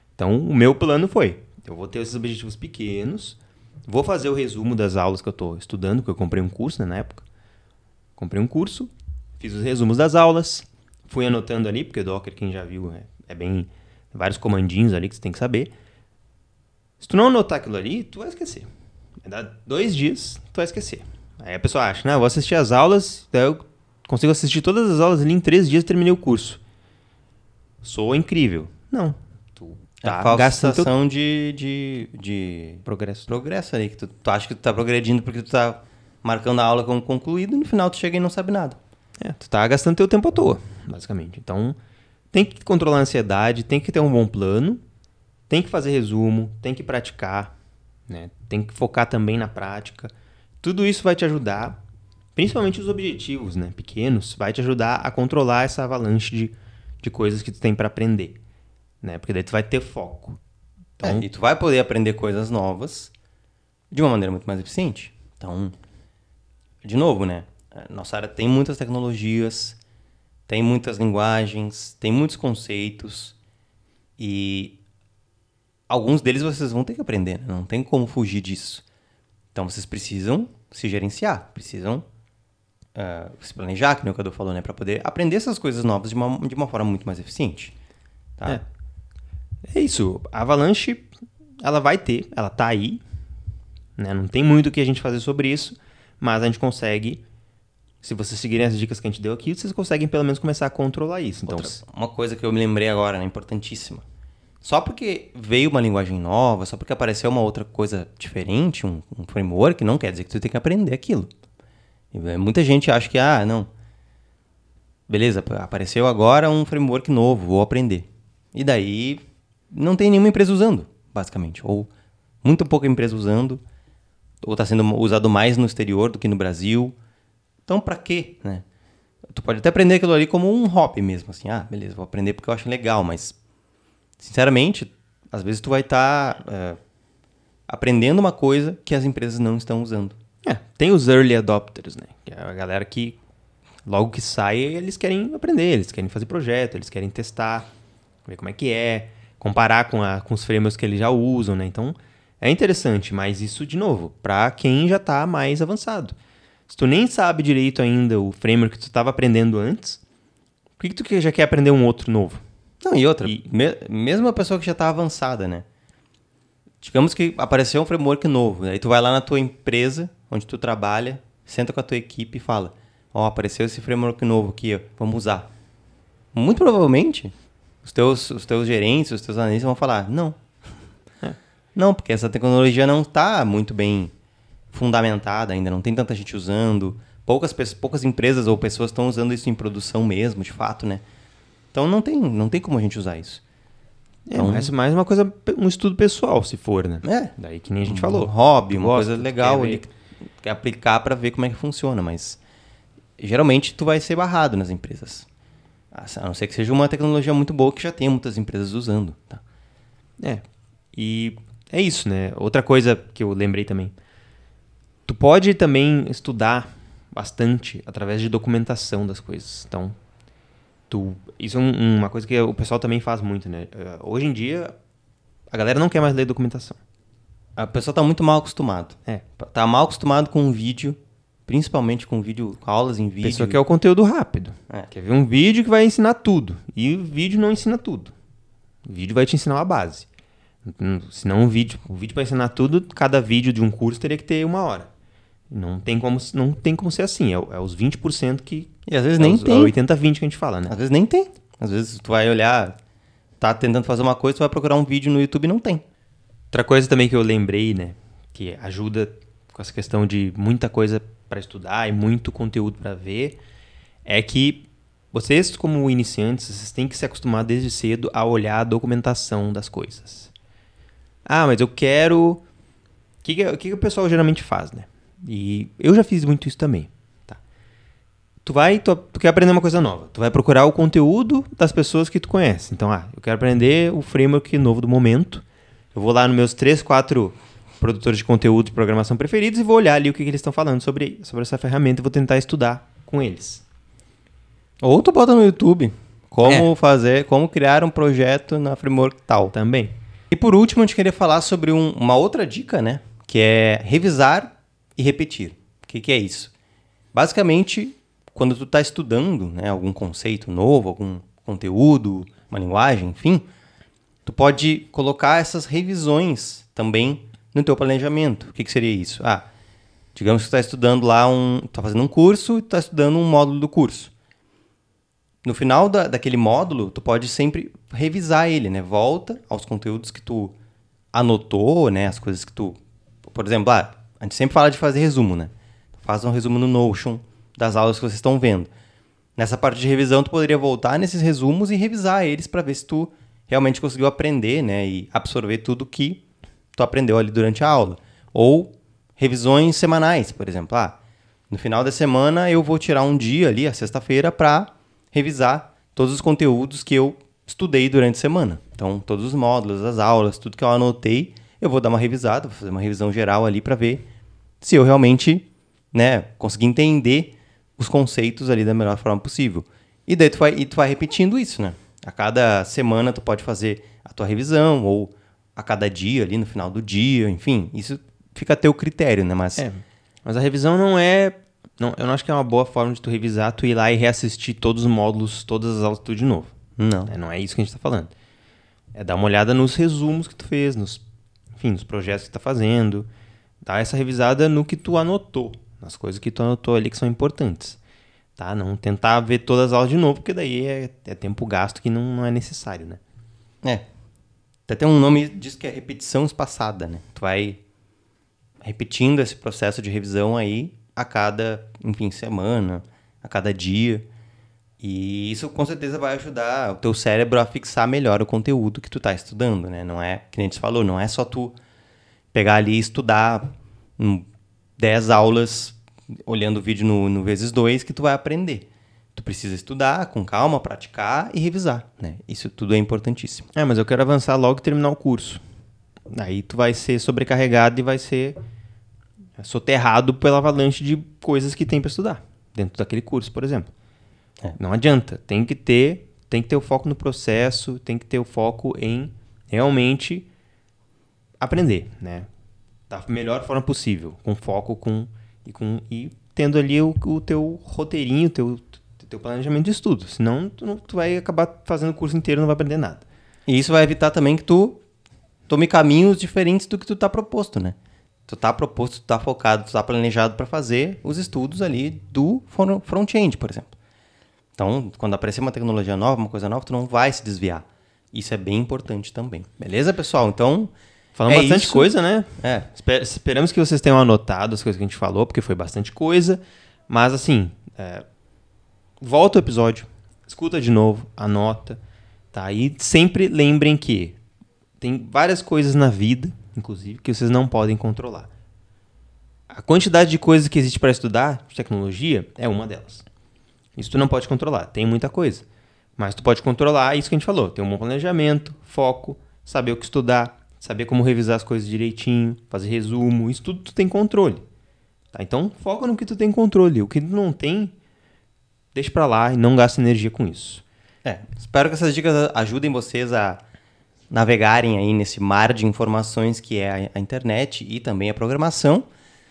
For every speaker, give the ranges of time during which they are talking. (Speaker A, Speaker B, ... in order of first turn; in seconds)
Speaker A: 0.2-7.2, 8.2-15.7, 17.0-18.7, 19.2-26.6, 27.8-30.9, 32.8-33.3, 39.2-41.8, 42.3-44.8, 45.5-47.5, 48.1-51.8, 52.3-58.4, 59.0-60.4, 89.7-91.1, 91.6-93.0, 94.0-97.2, 98.0-101.8, 140.4-143.2, 143.8-147.7, 148.2-156.2, 156.7-160.0, 160.8-162.4, 194.3-199.8, 210.2-213.9, 215.1-220.0, 220.9-224.7, 225.5-226.8, 233.2-238.1, 238.8-240.1, 240.6-244.9, 245.5-250.7, 256.5-263.4, 264.1-270.3, 271.2-272.4, 273.2-277.4, 278.4-293.6, 299.5-299.9, 379.6-386.5, 387.1-388.1, 388.9-391.0, 391.6-393.1, 393.6-397.8, 398.4-403.0, 433.5-435.4, 436.1-438.4, 439.4-443.7, 444.6-450.3, 451.4-452.3, 452.9-463.1, 481.1-488.0, 489.0-491.8, 492.3-494.2, 494.8-498.3, 499.5-503.0, 503.8-505.4, 506.0-514.4, 515.1-517.7, 518.7-520.6
Speaker B: 30.0-38.8, 61.0-63.1, 63.9-65.7, 66.8-69.8, 70.5-73.3, 74.2-74.8, 75.9-78.8, 79.5-82.0, 82.9-87.7, 88.4-88.6, 101.5-104.0, 104.6-111.3, 112.1-113.7, 115.1-121.9, 122.4-123.6, 124.4-127.0, 127.7-128.6, 129.3-133.3, 134.2-136.8, 137.7-140.2, 162.8-165.7, 166.8-175.5, 176.3-180.4, 181.7-184.1, 184.7-191.0, 191.7-193.4, 194.3-194.7, 197.0-197.3, 197.8-202.4, 203.2-205.3, 205.9-209.4, 227.6-233.6, 248.8-249.7, 250.7-252.8, 253.4-255.8, 294.8-299.5, 300.3-306.5, 307.1-313.4, 314.2-319.5, 320.1-324.1, 325.4-330.6, 331.1-338.7, 339.4-346.2, 346.7-351.0, 351.5-364.1, 364.6-379.6, 386.8-387.1, 404.7-407.6, 408.6-414.0, 414.8-421.6, 422.3-424.2, 424.8-433.5, 463.5-464.8, 465.5-467.8, 468.3-473.7, 474.6-480.7, 481.3-482.7, 521.0-523.4, 524.1-528.9